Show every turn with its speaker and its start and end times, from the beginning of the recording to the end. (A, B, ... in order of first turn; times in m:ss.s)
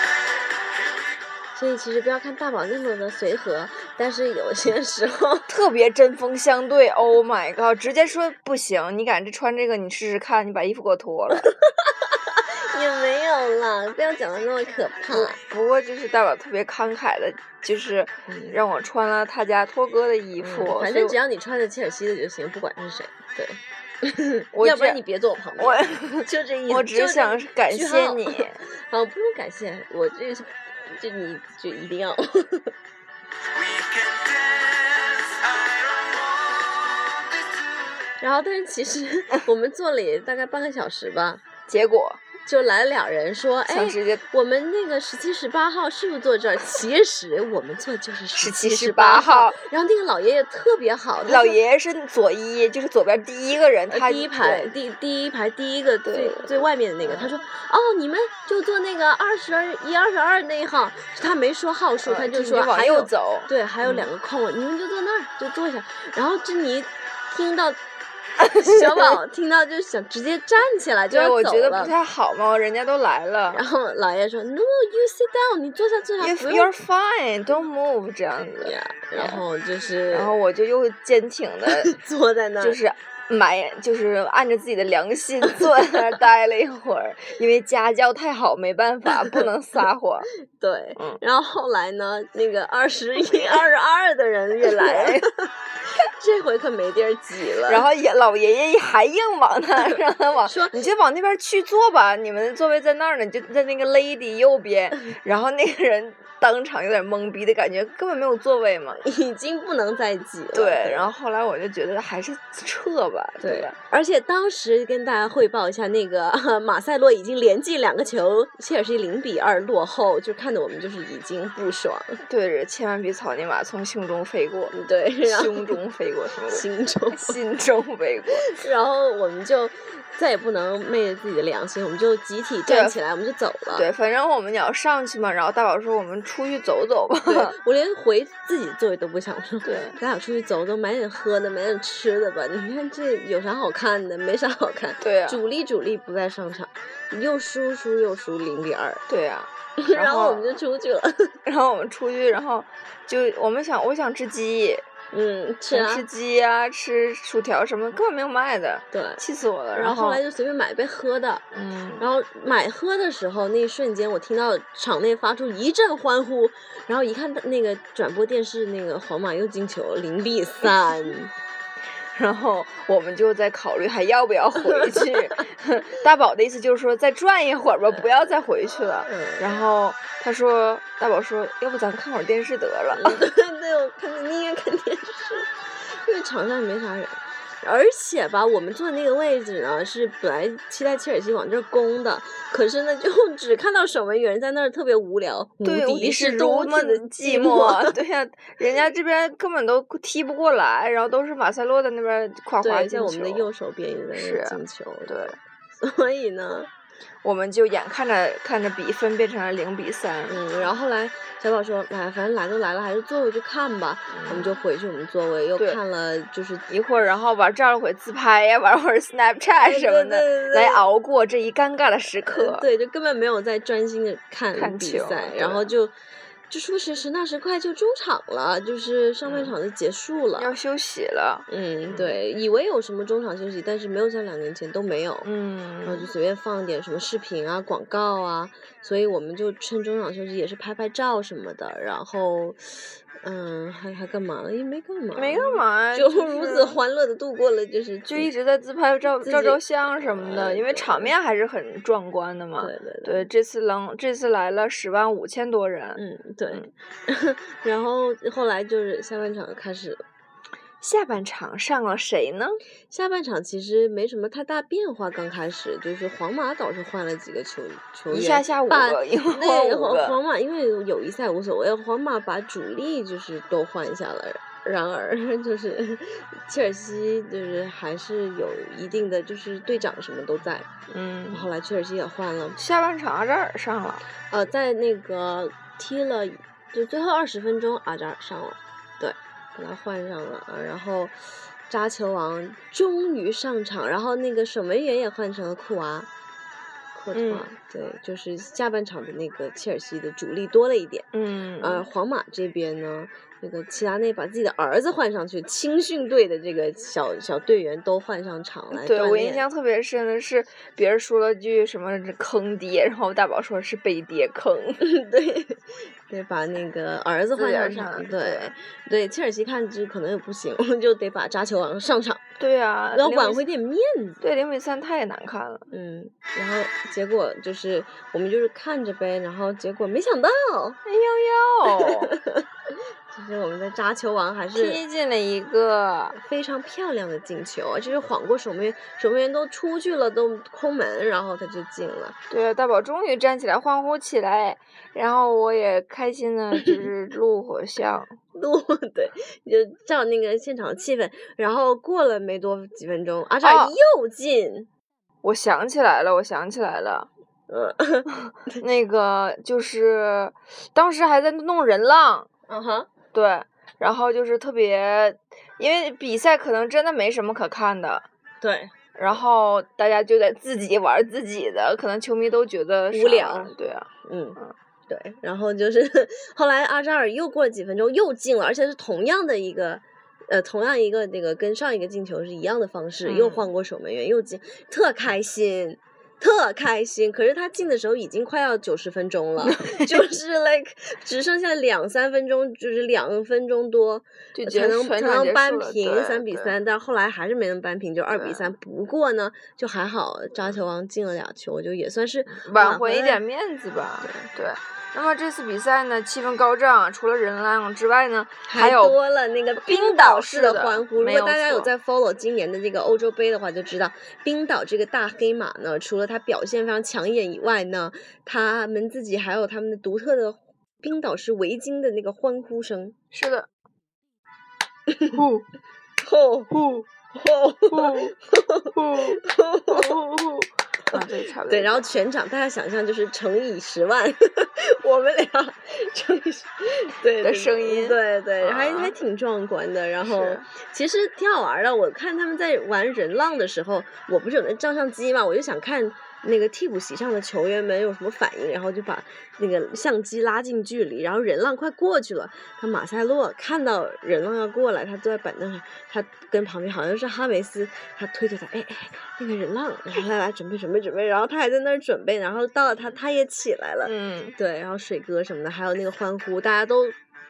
0:01.5-0:05.5 A
0:05.5-0:11.5 B
0:11.4-0:15.4 A
0:15.1-0:21.2 B
0:18.3-0:18.6 A
0:20.4-0:32.7 A
0:24.5-0:25.0 B
0:25.6-0:28.6 B
0:33.5-0:37.4 C
0:38.2-0:41.4 A
0:41.7-0:42.2 B
0:42.4-0:51.6 A
0:43.7-0:44.2 B
0:48.4-0:49.6 B
0:51.2-0:54.7 B
0:53.9-1:07.8 A
0:56.0-0:57.3 B
1:02.0-1:04.1 B
1:08.4-1:09.1 B
1:08.5-1:11.9 A
1:11.1-1:13.6 B
1:13.5-1:16.7 A
1:16.2-1:19.4 B
1:18.6-1:20.3 A
1:20.1-1:21.9 B
1:21.7-1:22.8 A
1:22.6-1:30.3 B
1:30.4-1:37.8 A
1:34.6-1:35.3 B
1:37.7-1:49.0 B
1:39.9-1:40.8 A
1:49.0-1:51.1 A
1:50.5-1:53.8 B
1:53.4-2:02.2 A
2:02.3-2:08.5 B
2:04.7-2:05.7 A
2:06.5-2:07.4 A
2:08.5-2:13.8 A
2:12.7-2:13.0 B
2:13.7-2:17.5 B
2:17.2-2:29.0 A
2:19.6-2:20.0 B
2:25.0-2:25.4 B
2:29.1-2:30.6 B
2:29.8-2:31.4 A
2:31.4-2:34.8 B
2:35.1-2:36.0 A
2:35.7-2:40.2 B
2:38.9-2:39.2 A
2:39.7-2:41.4 A
2:41.5-2:42.0 B
2:42.0-2:51.3 A
2:52.1-3:03.2 B
2:54.6-2:55.1 A
2:57.9-2:58.3 A
2:59.0-2:59.5 A
3:02.9-3:17.9 A
3:15.6-3:23.5 B
3:22.6-3:26.7 A
3:24.1-3:25.4 B
3:27.2-3:30.4 B
3:30.3-3:36.6 A
3:34.1-3:34.5 B
3:36.7-3:42.6 B
3:39.6-3:40.8 A
3:42.2-3:45.9 A
3:44.5-3:45.7 B
3:46.5-3:50.5 A
3:49.2-3:49.5 B
3:50.4-3:52.2 B
3:51.5-3:55.3 A
3:55.2-3:56.1 B
3:55.8-4:08.3 A
4:05.2-4:06.8 B
4:08.1-4:16.7 B
4:09.2-4:11.1 A
4:12.6-4:13.2 A
4:16.0-4:20.0 A
4:20.8-4:22.6 B
4:22.9-4:40.7 A
4:28.1-4:30.2 B
4:40.9-4:41.4 B
4:41.3-4:42.6 A
4:42.6-4:44.0 B
4:44.3-4:51.2 A
4:51.7-4:56.1 A
4:56.9-5:09.4 A
4:57.1-4:57.5 B
5:01.1-5:01.8 B
5:08.7-5:14.8 B
5:14.8-5:22.2 A
5:17.4-5:18.5 B
5:22.4-5:23.4 B
5:22.9-5:24.2 A
5:24.2-5:25.6 B
5:25.7-5:30.8 A
5:30.8-5:32.2 B
5:31.6-5:32.4 A
5:33.1-5:34.8 A
5:34.5-5:36.2 B
5:36.1-5:42.2 A
5:42.3-5:48.2 B
5:48.3-5:54.7 A
5:53.4-5:53.7 B
5:55.2-5:57.1 B
5:57.5-5:58.6 A
5:58.1-6:02.3 B
6:02.5-6:02.9 A
6:03.1-6:08.0 B
6:08.4-6:08.7 A
6:09.0-6:14.5 B
6:12.9-6:13.5 A
6:14.0-6:43.2 A
6:23.0-6:23.5 B
6:29.4-6:30.0 B
6:34.4-6:36.5 B
6:38.1-6:38.5 B
6:42.3-6:49.0 B
6:44.0-6:44.3 A
6:48.5-7:02.9 A
6:49.6-6:51.7 B
7:03.1-7:03.5 B
7:04.9-7:05.2 A
7:05.1-7:05.4 B
7:06.0-7:10.3 A
7:06.5-7:06.8 B
7:07.7-7:08.1 B
7:08.7-7:11.9 B
7:10.9-7:47.0 A
7:17.2-7:18.9 B
7:20.0-7:20.4 B
7:43.8-7:44.3 B